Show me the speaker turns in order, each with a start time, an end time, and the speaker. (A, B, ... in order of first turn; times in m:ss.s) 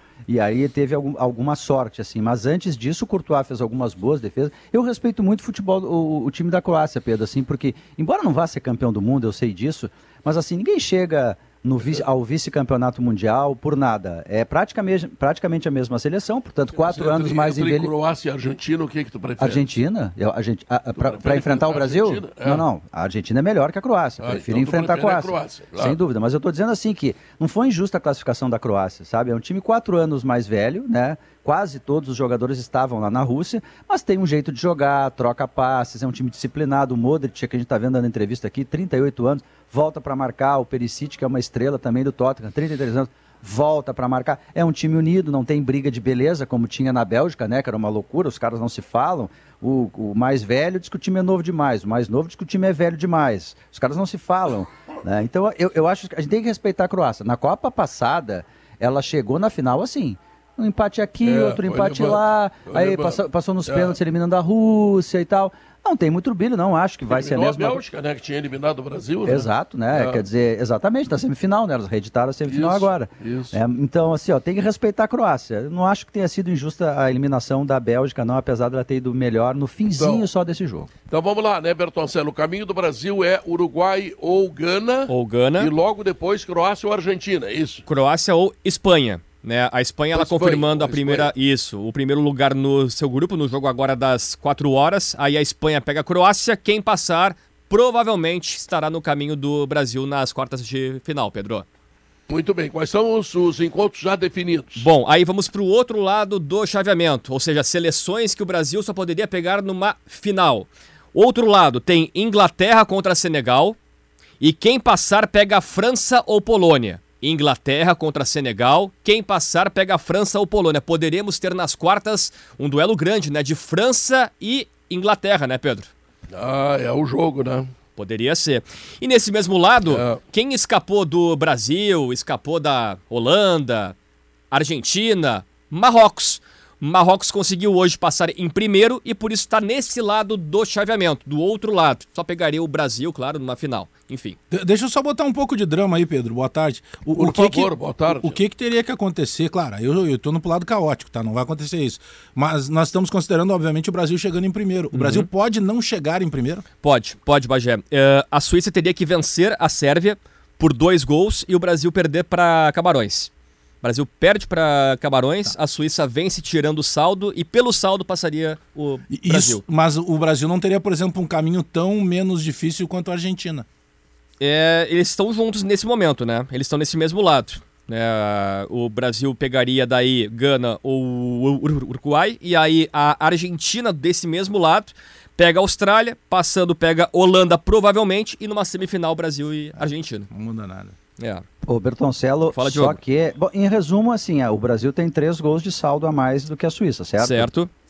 0:00.3-0:17.9 A
0:16.8-0:19.7 B
0:19.4-1:07.8 A
0:21.0-0:22.6 B
0:24.2-0:26.0 B
1:01.2-1:04.0 B
1:07.1-1:10.2 B
1:09.2-1:20.9 A
1:12.5-1:13.6 B
1:19.9-1:20.2 B
1:21.1-1:27.8 B
1:25.1-1:25.7 C
1:27.8-1:41.6 C
1:30.1-1:31.3 B
1:42.3-1:44.8 B
1:44.8-1:53.8 C
1:54.4-2:05.9 C
2:06.3-2:07.7 B
2:08.0-2:13.9 C
2:09.9-2:10.2 B
2:14.5-2:24.4 C
2:24.5-2:36.6 D
2:27.1-2:28.4 B
2:34.9-2:35.3 C
2:36.8-2:43.3 C
2:43.8-2:49.6 C
2:49.1-2:53.6 D
2:54.4-3:10.3 C
3:10.3-3:10.9 D
3:11.2-3:11.4 C
3:11.6-3:17.5 A
3:12.5-3:13.0 C
3:17.2-3:17.7 C